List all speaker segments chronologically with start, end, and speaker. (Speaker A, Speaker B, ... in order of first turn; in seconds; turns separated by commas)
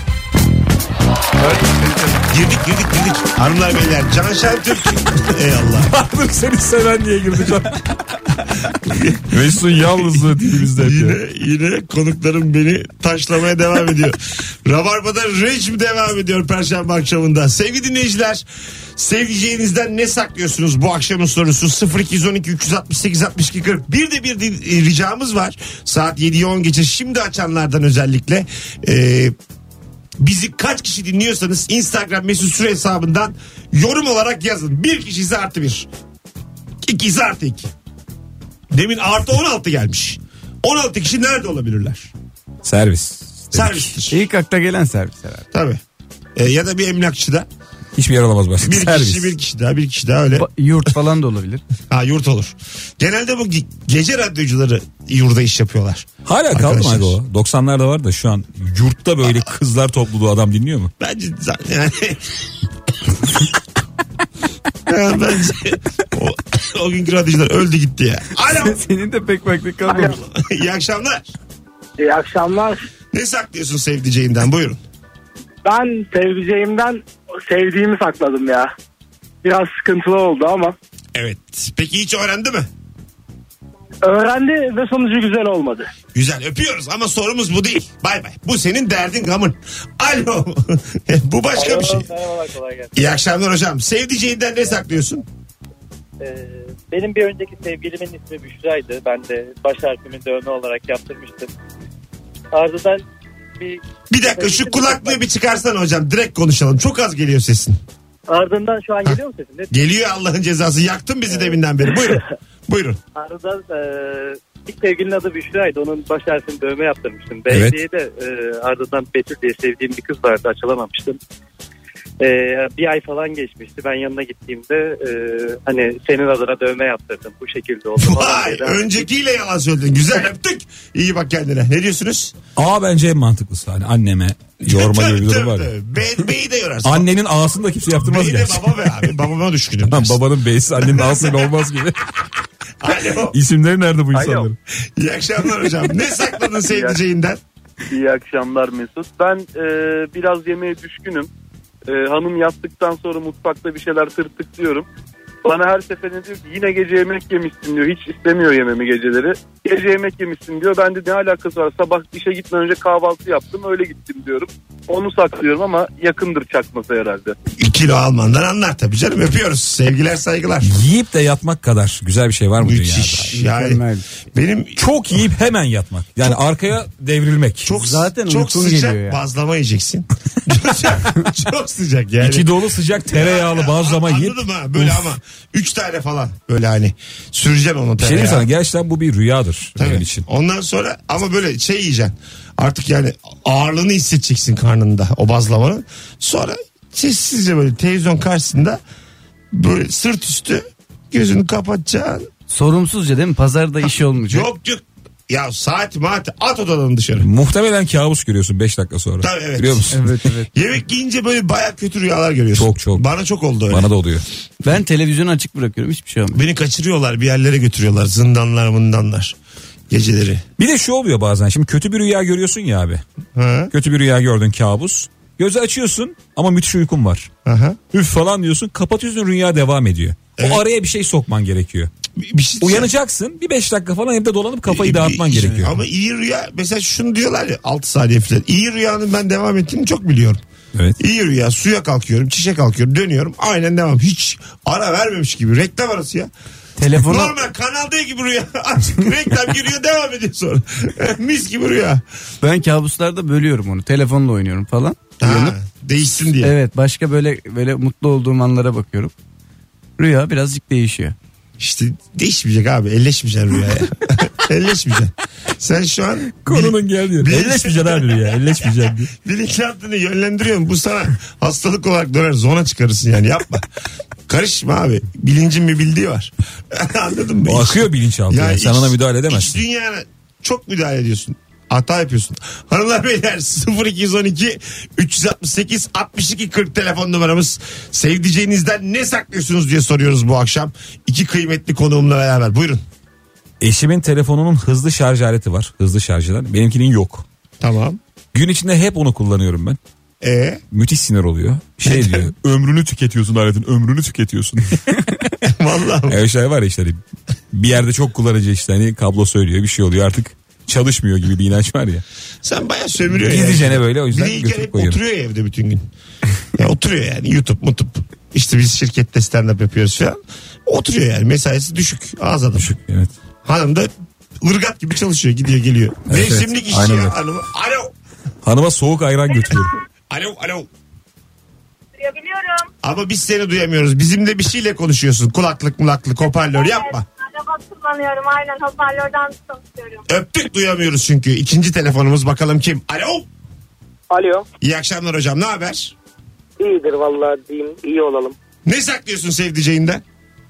Speaker A: 1.4-2.2, Speaker B: 2.3-5.9, Speaker C: 5.8-7.8, Speaker B: 8.8-18.4, Speaker C: 9.3-11.2, Speaker B: 18.9-29.3, Speaker B: 30.2-35.9, Speaker B: 36.8-37.7, Speaker B: 38.7-42.1, Speaker C: 42.6-43.9, Speaker B: 43.5-44.2, Speaker A: 44.1-45.4, Speaker B: 45.5-45.8, Speaker B: 46.4-47.5, Speaker C: 48.0-49.3, Speaker B: 48.6-50.5, Speaker A: 50.3-51.6, Speaker B: 51.9-57.2, Speaker C: 56.2-60.9, Speaker B: 61.0-62.2, Speaker B: 64.9-68.8, Speaker A: 68.5-70.2, Speaker D: 69.9-70.1, Speaker B: 70.0-71.3, Speaker D: 72.0-72.8, Speaker B: 73.1-74.8, Speaker D: 75.6-78.7, Speaker D: 79.4-80.7, Speaker B: 81.1-82.7, Speaker D: 84.0-85.9, Speaker B: 86.1-92.1, Speaker E: 91.5-93.1, Speaker B: 92.9-95.2, Speaker E: 96.2-101.5, Speaker E: 102.5-103.0, Speaker E: 103.6-105.2, Speaker B: 104.1-107.8, Speaker E: 108.3-109.9, Speaker B: 109.7-113.0, Speaker E: 111.3-112.2, Speaker E: 113.1-121.2, Speaker C: 117.5-117.8, Speaker E: 122.2-129.0, Speaker B: 128.0-132.3, Speaker C: 132.6-135.7, Speaker B: 134.6-137.1, Speaker C: 136.8-138.8, Speaker B: 137.9-140.2, Speaker C: 139.9-142.0, Speaker B: 140.8-141.5, Speaker B: 142.8-143.3, Speaker C: 143.3-144.6, Speaker F: 144.2-144.5, Speaker B: 145.0-147.4, Speaker F: 146.7-147.0, Speaker F: 147.9-151.3, Speaker F: 151.9-154.9, Speaker F: 155.4-167.3, Speaker B: 167.5-170.7, Speaker C: 170.6-173.3, Speaker B: 172.6-175.2, Speaker A: 173.3-174.1, Speaker C: 174.8-177.7, Speaker B: 177.6-182.5, Speaker A: 177.7-179.2, Speaker C: 182.2-185.1, Speaker B: 183.0-188.5, Speaker C: 188.0-190.2, Speaker B: 189.8-198.8, Speaker B: 199.5-202.3, Speaker A: 202.5-204.5, Speaker B: 204.3-207.3, Speaker C: 207.2-210.0, Speaker B: 209.2-210.0, Speaker A: 209.9-210.5, Speaker B: 210.5-213.9, Speaker C: 212.5-213.0, Speaker C: 213.7-214.2, Speaker A: 214.6-216.4, Speaker B: 216.3-219.3, Speaker B: 219.9-220.4, Speaker C: 220.6-223.0, Speaker B: 223.3-223.7, Speaker C: 223.7-227.3, Speaker B: 227.4-227.8, Speaker C: 227.9-231.9, Speaker B: 230.4-230.6, Speaker B: 232.2-232.9, Speaker C: 232.6-235.8, Speaker B: 234.7-240.4, Speaker B: 241.0-246.3, Speaker A: 246.8-247.4, Speaker B: 246.9-252.0, Speaker A: 252.4-255.5, Speaker B: 255.2-256.5, Speaker A: 256.4-259.1, Speaker A: 260.0-261.1, Speaker B: 261.6-273.7, Speaker C: 266.4-269.1, Speaker B: 274.3-292.8, Speaker C: 277.4-279.6, Speaker C: 293.6-297.2, Speaker B: 297.6-298.0, Speaker C: 298.3-299.8, Speaker B: 300.2-300.6, Speaker C: 300.7-305.1, Speaker B: 301.8-302.3, Speaker B: 305.4-306.2, Speaker C: 306.1-307.0, Speaker C: 307.5-312.0, Speaker B: 312.4-315.9, Speaker C: 313.1-315.0, Speaker B: 316.6-322.7, Speaker C: 322.6-323.1, Speaker B: 323.4-323.9, Speaker B: 324.4-327.9, Speaker C: 326.1-327.1, Speaker C: 328.4-329.8, Speaker B: 330.1-330.7, Speaker G: 332.0-332.7, Speaker B: 332.8-337.1, Speaker G: 336.7-340.0, Speaker B: 340.1-343.3, Speaker H: 344.1-344.5, Speaker B: 344.6-345.9, Speaker H: 346.6-348.4, Speaker B: 348.6-350.0